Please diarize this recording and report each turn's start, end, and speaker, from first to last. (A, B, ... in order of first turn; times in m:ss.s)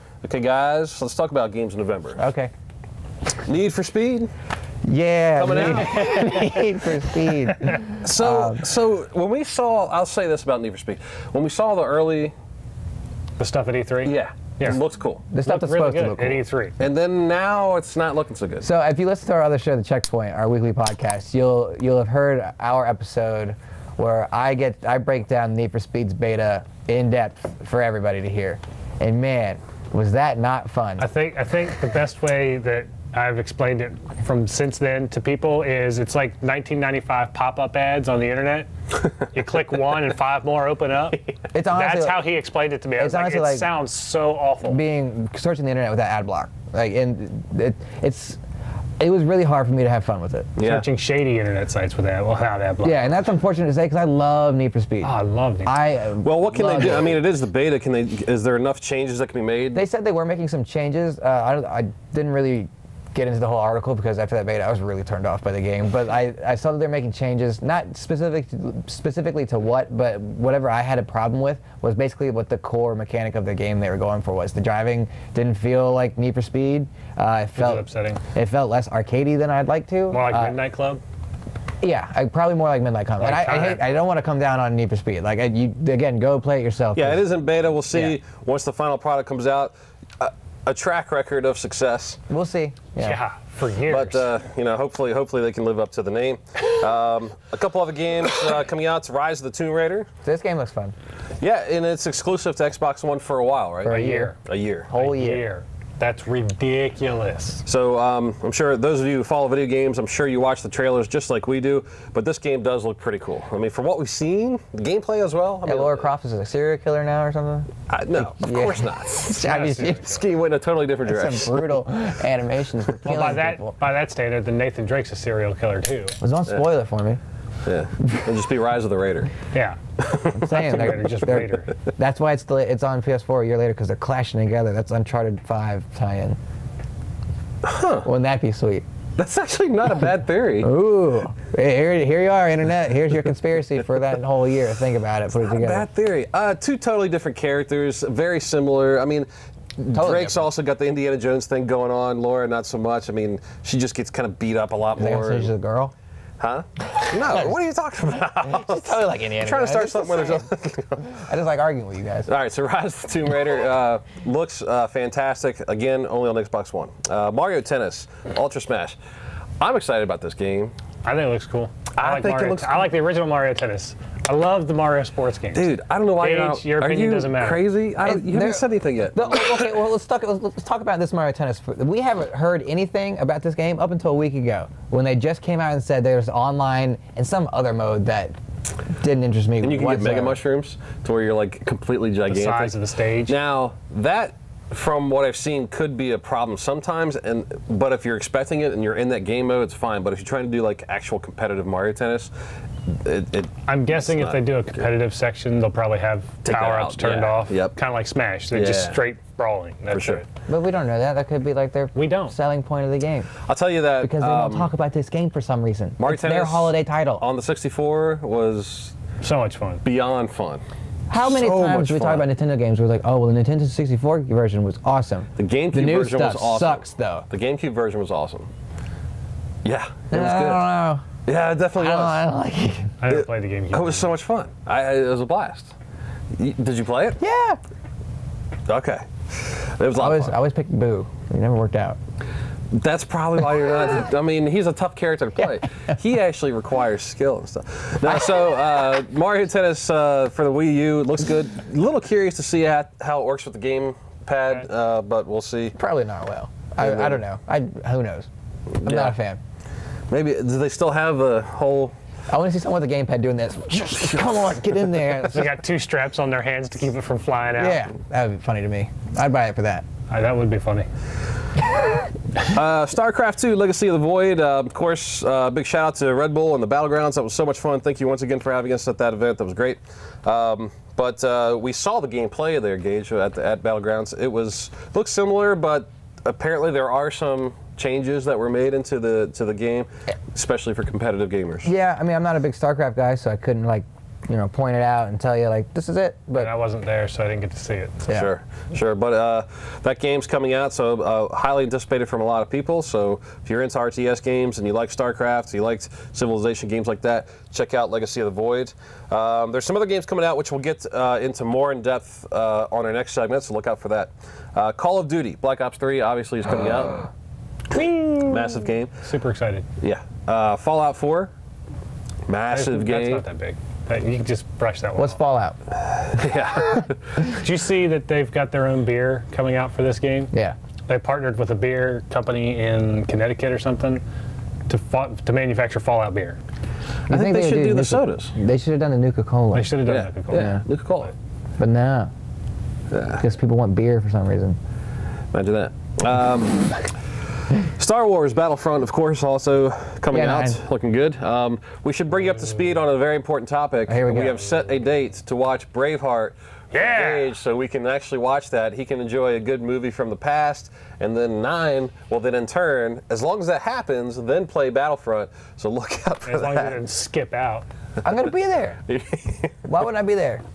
0:00.2-0:02.2 A
0:02.2-0:02.5 B
0:03.4-0:04.3 A
0:04.8-0:08.6 B
0:05.4-0:06.1 A
0:05.8-0:06.6 C
0:08.0-0:12.3 A
0:13.4-0:14.8 C
0:14.0-0:15.2 A
0:15.3-0:16.4 B
0:15.4-0:16.7 C
0:16.8-0:18.7 A
0:18.6-0:31.1 B
0:31.0-0:38.7 C
0:39.2-0:44.8 C
0:41.5-0:42.3 B
0:43.0-0:43.7 B
0:44.6-0:48.4 B
0:49.0-0:50.5 B
0:50.6-0:50.8 A
0:50.6-0:53.1 C
0:52.8-0:55.1 B
0:55.0-0:55.7 C
0:55.6-0:57.2 B
0:56.2-0:59.8 A
0:59.7-1:20.6 B
1:17.5-1:18.2 C
1:20.1-1:21.0 C
1:21.8-1:27.3 B
1:23.2-1:23.8 C
1:26.9-1:32.2 A
1:27.9-1:28.2 B
1:32.3-1:33.2 B
1:33.0-1:34.3 C
1:33.8-1:40.1 A
1:40.2-1:40.9 B
1:41.4-1:44.9 A
1:43.8-1:44.4 C
1:43.9-1:44.3 B
1:44.9-1:45.4 B
1:44.9-1:47.6 C
1:47.6-1:56.1 A
1:55.6-2:00.1 B
1:57.9-2:01.8 A
1:59.4-2:00.2 C
2:01.0-2:03.8 B
2:03.0-2:06.2 C
2:06.2-2:07.2 B
2:07.6-2:09.3 A
2:09.5-2:09.8 C
2:10.0-2:11.0 A
2:10.3-2:16.4 B
2:10.5-2:11.7 C
2:17.6-2:18.1 A
2:18.0-2:18.8 B
2:19.2-2:20.7 A
2:20.6-2:25.9 B
2:25.4-2:35.5 A
2:29.9-2:30.4 B
2:35.0-2:35.9 B
2:36.4-2:41.2 A
2:36.9-2:37.5 B
2:38.4-2:40.5 B
2:41.0-2:42.3 B
2:42.3-2:49.0 A
2:49.6-2:50.7 A
2:51.0-2:57.6 C
2:51.9-2:52.9 A
2:55.5-2:59.8 A
2:58.0-3:08.3 B
3:09.0-3:10.4 B
3:09.6-3:22.3 A
3:12.3-3:13.3 C
3:23.0-3:24.4 A
3:23.7-3:30.2 C
3:26.4-3:27.7 A
3:28.5-3:29.0 A
3:29.9-3:30.2 A
3:30.5-3:33.3 B
3:31.9-3:32.3 C
3:33.5-3:34.7 A
3:34.0-3:37.2 B
3:36.0-3:39.0 A
3:39.2-3:39.8 C
3:39.8-3:40.6 A
3:41.1-3:47.3 B
3:41.1-3:42.3 A
3:45.4-3:48.5 A
3:49.6-3:50.6 A
3:50.1-3:51.0 B
3:51.2-3:52.2 A
3:51.7-3:53.0 B
3:53.0-3:54.1 C
3:53.1-3:55.7 A
3:56.4-3:57.2 A
3:57.2-3:57.6 B
3:58.7-4:00.4 A
4:00.0-4:02.0 B
4:02.7-4:15.8 A
4:08.0-4:08.3 B
4:15.7-4:18.3 B
4:16.8-4:17.2 A
4:18.8-4:19.4 B
4:18.8-4:19.2 A
4:20.1-4:21.9 A
4:22.3-4:25.5 B
4:24.1-4:24.4 A
4:25.3-4:27.8 C
4:27.6-4:29.8 B
4:30.1-4:30.9 C
4:32.5-4:51.7 A
4:51.6-4:56.5 B
4:56.4-4:58.0 C
4:58.1-5:17.1 A
5:17.7-5:18.9 A
5:17.8-5:18.3 C
5:19.0-5:19.6 C
5:19.8-5:21.3 A
5:22.3-5:23.2 A
5:22.5-5:25.2 C
5:25.0-5:25.6 B
5:26.1-5:27.2 A
5:27.3-5:30.3 C
5:30.3-5:30.6 B
5:30.9-5:34.0 C
5:34.7-5:36.4 C
5:37.1-5:38.3 A
5:37.1-5:39.8 B
5:39.5-5:41.1 C
5:39.8-5:41.1 A
5:40.3-5:40.6 B
5:41.6-5:42.1 B
5:42.9-5:43.2 A
5:43.2-5:44.6 B
5:45.3-5:46.8 A
5:47.6-6:06.8 A
5:50.1-5:50.6 B
5:53.9-5:54.4 B
5:56.7-5:57.3 C
6:06.2-6:07.7 C
6:08.0-6:08.8 B
6:08.0-6:08.3 A
6:08.9-6:09.6 A
6:09.6-6:10.4 B